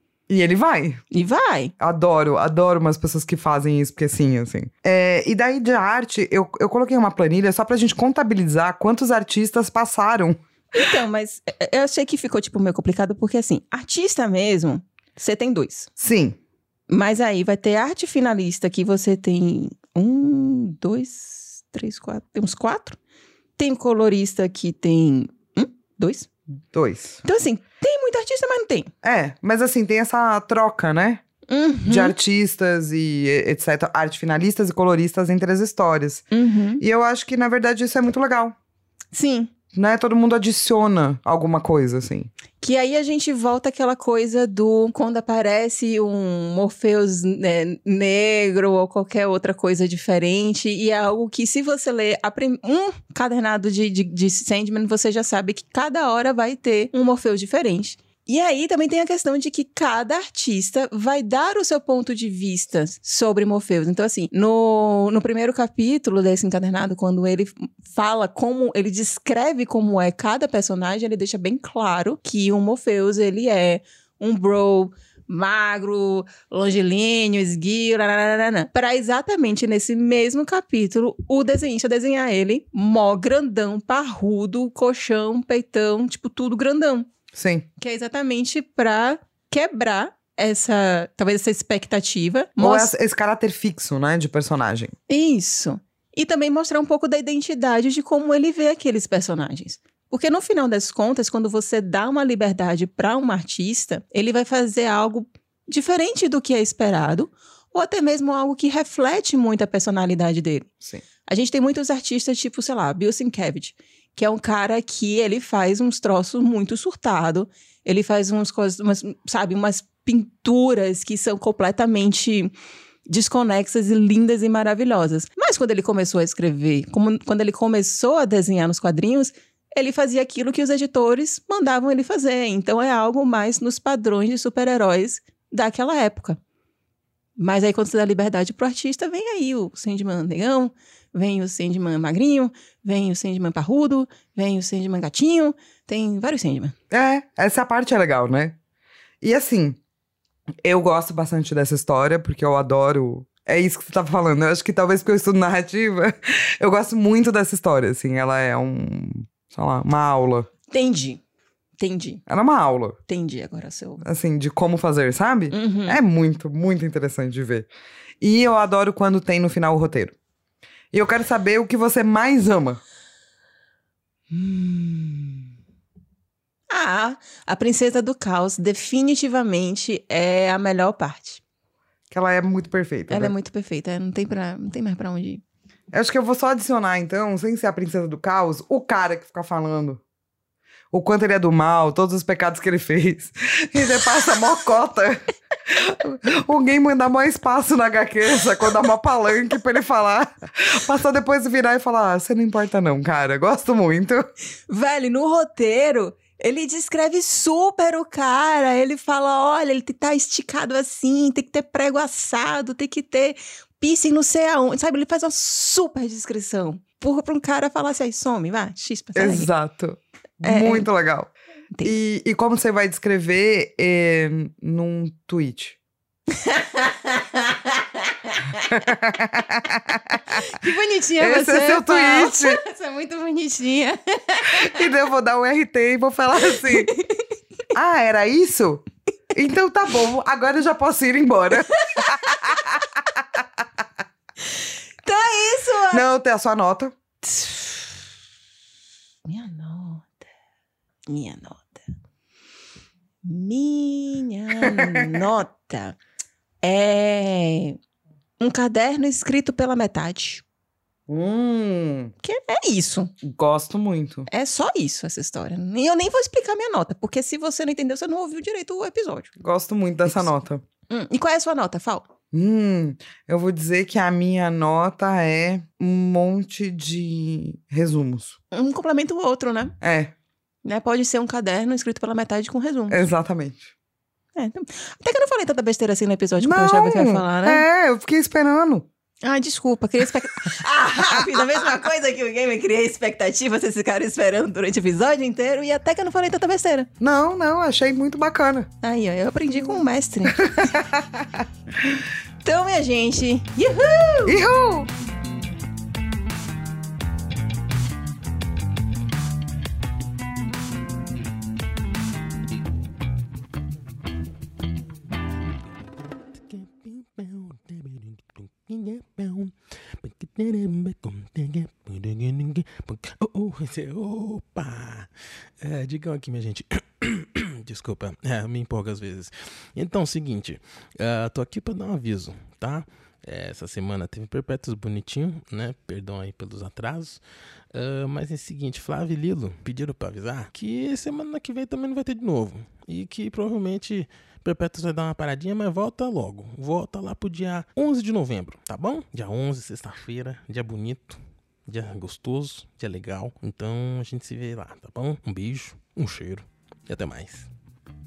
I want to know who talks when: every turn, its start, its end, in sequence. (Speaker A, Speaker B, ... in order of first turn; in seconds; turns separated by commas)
Speaker A: 0.3-1.0, Speaker B: 1.1-1.7, Speaker A: 1.8-10.4, Speaker B: 10.7-15.9, Speaker A: 16.0-16.4, Speaker B: 16.9-23.0, Speaker B: 23.6-26.3, Speaker A: 26.7-27.2, Speaker B: 27.2-28.9, Speaker A: 29.0-31.2, Speaker B: 31.5-32.1, Speaker A: 31.9-36.2, Speaker B: 36.3-36.8, Speaker A: 36.8-38.5, Speaker B: 39.1-39.5, Speaker A: 39.7-42.3, Speaker B: 42.6-87.1, Speaker A: 87.3-87.7, Speaker B: 87.8-92.9, Speaker A: 92.6-95.0, Speaker B: 95.1-110.7, Speaker B: 111.2-122.5, Speaker B: 123.1-136.4, Speaker B: 137.4-146.8, Speaker A: 146.9-148.6, Speaker A: 149.2-149.8, Speaker A: 150.6-160.5, Speaker B: 160.7-161.2, Speaker B: 161.8-162.2, Speaker A: 162.3-163.0, Speaker B: 163.1-164.0, Speaker A: 164.0-167.7, Speaker B: 165.5-166.0, Speaker A: 168.2-170.2, Speaker A: 170.9-172.8, Speaker B: 174.3-175.4, Speaker B: 176.7-181.4, Speaker A: 182.1-183.3, Speaker B: 183.1-185.4, Speaker A: 185.9-190.0, Speaker A: 190.9-204.3, Speaker B: 204.7-219.5, Speaker A: 219.2-221.3, Speaker B: 220.4-220.9, Speaker A: 221.8-225.8, Speaker B: 226.3-228.7, Speaker A: 228.6-230.4, Speaker B: 230.4-234.9, Speaker A: 231.2-232.6, Speaker A: 234.5-236.9, Speaker B: 236.5-237.2, Speaker A: 237.7-242.9, Speaker B: 241.6-242.8, Speaker B: 244.5-246.0, Speaker A: 245.9-246.9, Speaker B: 247.2-248.0, Speaker B: 249.3-250.2, Speaker B: 251.1-251.9, Speaker B: 253.2-256.0, Speaker A: 254.6-255.0, Speaker B: 256.6-257.8, Speaker B: 258.4-260.4, Speaker A: 261.1-262.1, Speaker B: 262.2-263.1, Speaker A: 263.2-264.3, Speaker B: 264.3-269.3, Speaker A: 269.4-270.6, Speaker B: 270.9-272.1, Speaker A: 272.3-278.4, Speaker B: 278.5-279.8, Speaker A: 279.8-280.1, Speaker B: 280.6-283.1, Speaker A: 282.9-283.7, Speaker B: 284.4-287.6, Speaker A: 286.4-288.9, Speaker B: 289.2-296.9, Speaker A: 297.0-298.7, Speaker B: 298.8-300.8, Speaker A: 300.4-302.0, Speaker B: 302.4-304.4, Speaker A: 304.3-304.9, Speaker C: 315.5-325.1, Speaker C: 325.6-337.2, Speaker C: 337.7-357.5